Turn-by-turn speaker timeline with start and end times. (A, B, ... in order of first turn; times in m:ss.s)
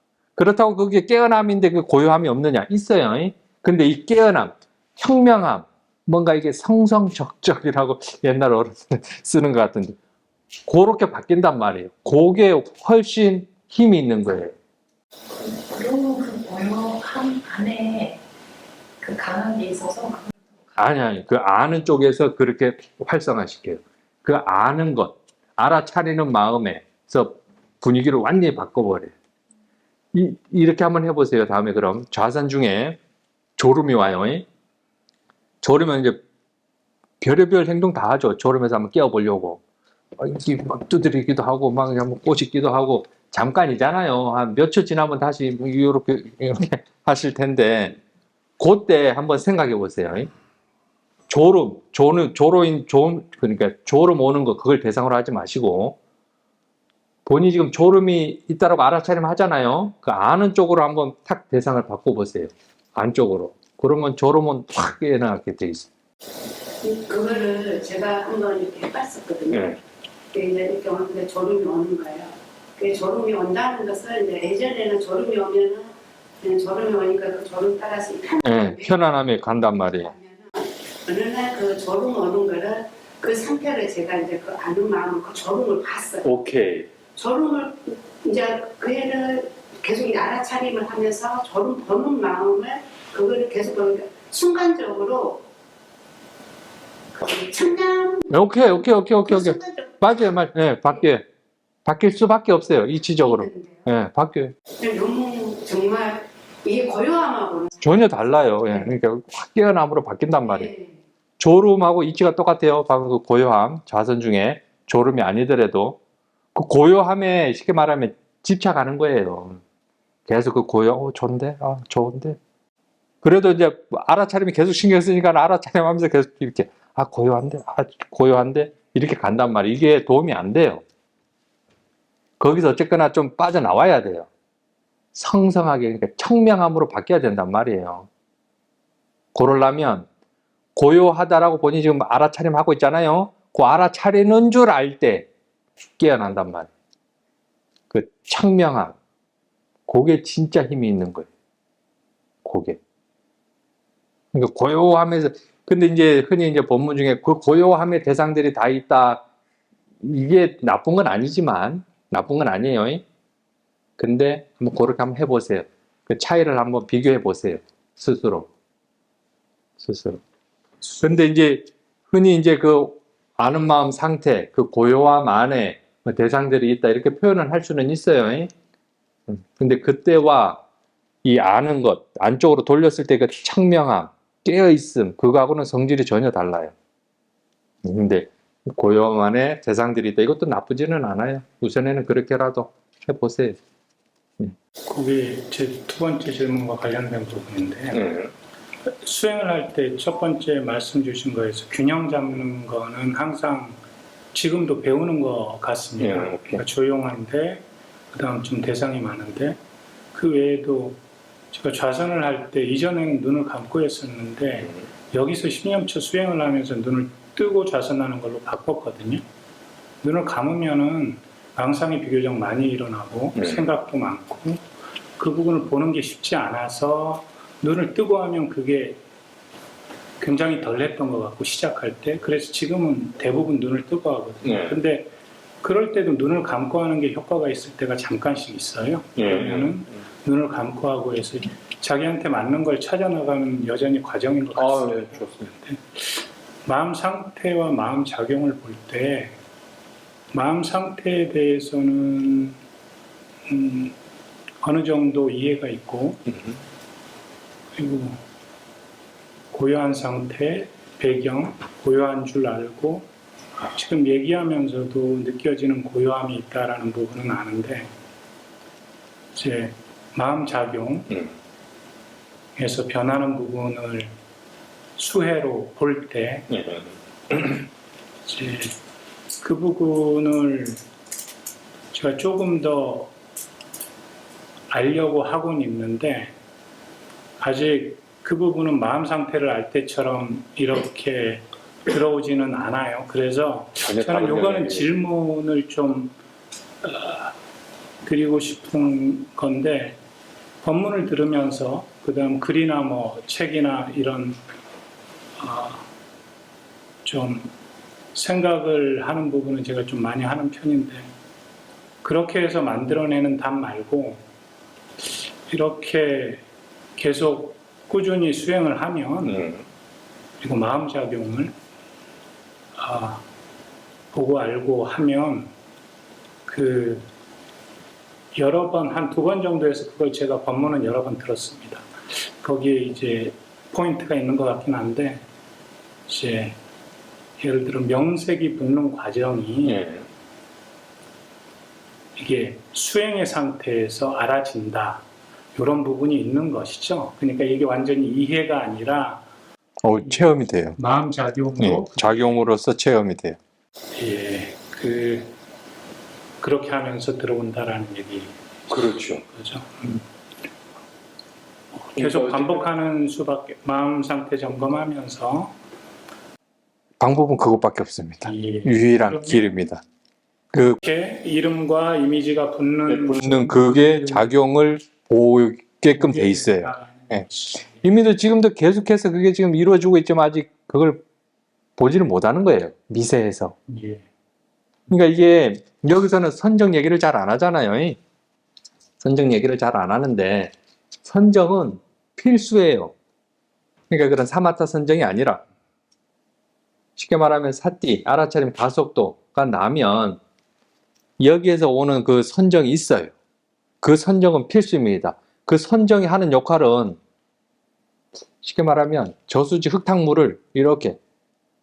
0:00.4-0:10.0 A
0:10.6-0:14.5 A
0:15.3-0:18.2 B
0:19.0-0:20.8 B
0:20.8-0:29.1 A
0:30.1-0:33.0 A
0:33.6-0:34.4 A
0:35.6-0:36.2 A
0:37.2-0:39.6 A
0:40.2-0:48.0 A
0:48.6-0:50.3 A
0:51.3-0:56.0 A
0:57.2-1:05.9 A
1:06.8-1:09.6 C
1:09.5-1:09.8 A
1:10.3-1:15.9 C
1:16.4-1:26.3 C
1:18.4-1:20.1 A
1:26.2-1:26.9 A
1:27.2-1:35.4 C
1:37.2-1:38.7 C
1:38.3-1:41.2 A
1:39.2-1:40.0 C
1:41.8-1:44.5 A
1:43.2-1:43.8 C
1:44.8-1:47.8 C
1:47.8-1:50.7 A
1:50.4-1:50.9 C
1:51.4-1:56.0 A
1:56.5-1:59.6 A
2:00.3-2:02.4 A
2:03.2-2:10.8 A
2:12.4-2:14.3 A
2:15.1-2:18.1 A
2:19.3-2:20.1 A
2:20.7-2:25.3 A
2:26.0-2:26.7 A
2:27.9-2:29.0 A
2:29.9-2:31.3 A
2:32.4-2:32.8 A
2:34.3-2:39.2 A
2:40.0-2:43.0 A
2:44.0-2:48.5 A
2:49.8-2:50.2 A
2:50.8-2:58.5 A
2:59.3-3:00.6 A
3:01.2-3:06.7 A
3:07.8-3:13.6 A
3:14.9-3:18.1 D
3:17.9-3:18.3 A
3:18.8-3:23.8 D
3:24.3-3:29.6 D
3:26.0-3:26.6 A
3:30.1-3:31.0 D
3:31.5-3:39.2 D
3:40.0-3:44.6 D
3:45.2-3:49.0 D
3:50.2-3:55.1 D
3:54.4-3:54.8 A
3:55.6-4:09.4 D
3:59.2-3:59.7 A
4:04.6-4:05.5 A
4:10.3-4:12.6 D
4:13.5-4:13.9 D
4:14.6-4:16.2 D
4:17.7-4:18.2 D
4:19.5-4:27.9 D
4:29.3-4:31.2 D
4:32.6-4:34.1 D
4:35.0-4:36.6 D
4:36.5-4:37.6 A
4:38.2-4:38.8 D
4:39.4-4:40.8 D
4:41.9-4:43.1 D
4:44.7-4:46.3 D
4:47.4-4:56.2 D
4:53.8-4:54.9 A
4:56.8-4:57.3 D
4:58.0-5:00.0 D
5:00.6-5:04.4 D
5:05.4-5:05.8 D
5:07.0-5:07.5 D
5:08.1-5:11.1 D
5:12.0-5:14.2 D
5:15.0-5:16.4 D
5:17.0-5:19.4 D
5:19.2-5:19.6 A
5:20.4-5:21.5 D
5:22.8-5:23.2 D
5:24.1-5:25.5 D
5:26.4-5:27.1 D
5:28.3-5:35.2 D
5:36.1-5:36.6 D
5:37.4-5:39.8 D
5:39.6-5:40.0 A
5:42.2-5:45.0 D
5:45.5-5:49.3 D
5:49.8-5:50.8 A
5:50.0-5:52.4 D
5:51.6-5:53.4 A
5:53.9-5:55.3 D
5:56.4-6:00.0 D
5:58.7-5:59.2 A
6:01.8-6:05.5 D
6:02.0-6:02.7 A
6:07.0-6:09.8 A
6:08.2-6:09.4 D
6:10.5-6:10.8 A
6:10.8-6:14.3 D
6:12.9-6:21.0 A
6:15.9-6:17.8 D
6:21.8-6:23.6 A
6:23.7-6:24.0 D
6:24.9-6:28.0 A
6:29.0-6:30.5 A
6:31.0-6:32.9 A
6:33.9-6:35.4 A
6:37.0-6:40.2 A
6:41.2-6:43.1 A
6:43.8-6:47.0 A
6:48.4-6:51.0 A